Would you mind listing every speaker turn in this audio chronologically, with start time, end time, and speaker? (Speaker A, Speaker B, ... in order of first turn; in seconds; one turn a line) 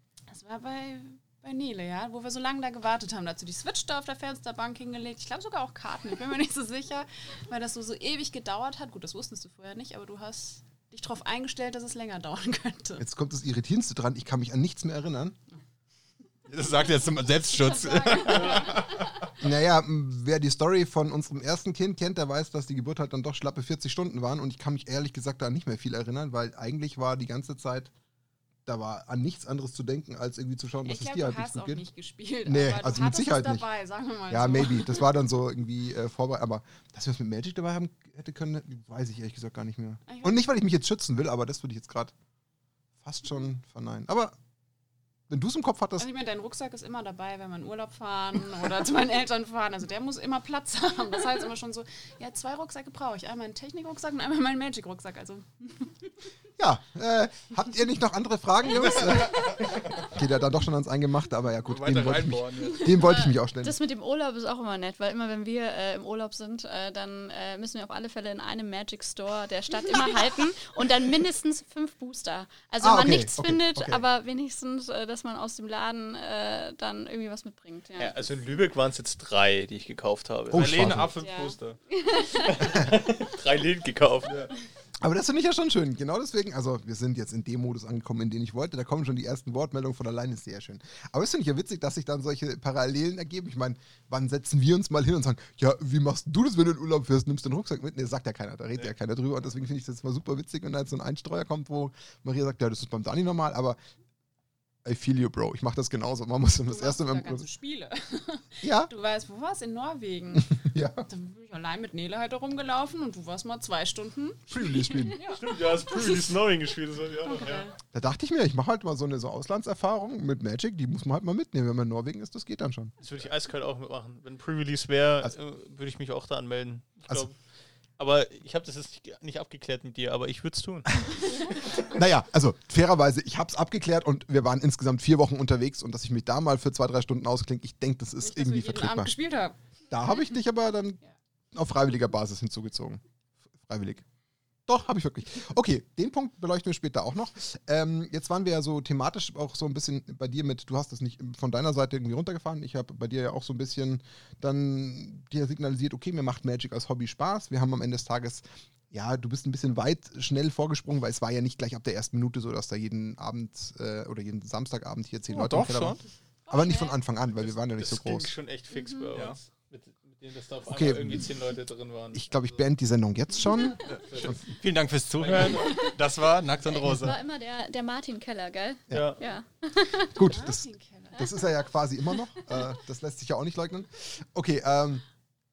Speaker A: 0.3-13.0
Speaker B: 13.0-15.3
Speaker C: 16.5-19.3
Speaker A: 17.4-18.9
Speaker B: 19.4-27.9
Speaker B: 28.6-31.8
Speaker A: 30.8-35.0
Speaker B: 32.5-33.6
Speaker B: 34.3-42.1
Speaker A: 40.1-40.4
Speaker B: 43.0-44.4
Speaker B: 45.3-46.1
Speaker A: 46.0-56.1
Speaker B: 56.6-63.8
Speaker C: 58.7-60.1
Speaker C: 61.6-63.2
Speaker D: 63.5-78.1
Speaker A: 69.9-70.1
Speaker B: 72.8-74.0
Speaker E: 78.0-80.9
Speaker B: 80.5-81.1
Speaker C: 80.5-81.8
Speaker A: 81.3-81.5
Speaker D: 82.0-82.5
Speaker E: 82.4-84.5
Speaker B: 85.0-103.8
Speaker B: 104.8-107.5
Speaker A: 106.7-116.4
Speaker B: 108.6-108.9
Speaker B: 110.4-111.0
Speaker B: 114.5-115.2
Speaker E: 115.4-117.7
Speaker A: 117.2-117.8
Speaker B: 117.9-122.9
Speaker E: 123.0-127.3
Speaker E: 128.0-131.3
Speaker A: 131.3-131.6
Speaker B: 131.8-139.1
Speaker A: 138.2-139.6
Speaker B: 139.9-141.0
Speaker B: 141.5-143.0
Speaker B: 143.6-144.0
Speaker B: 144.7-168.3
Speaker C: 165.3-166.0
Speaker A: 166.5-167.0
Speaker E: 167.4-172.2
Speaker B: 170.7-171.3
Speaker B: 172.1-174.3
Speaker C: 173.8-177.1
Speaker E: 174.0-174.4
Speaker E: 175.2-175.8
Speaker D: 176.7-180.2
Speaker E: 178.9-179.2
Speaker B: 180.1-185.0
Speaker A: 180.2-181.5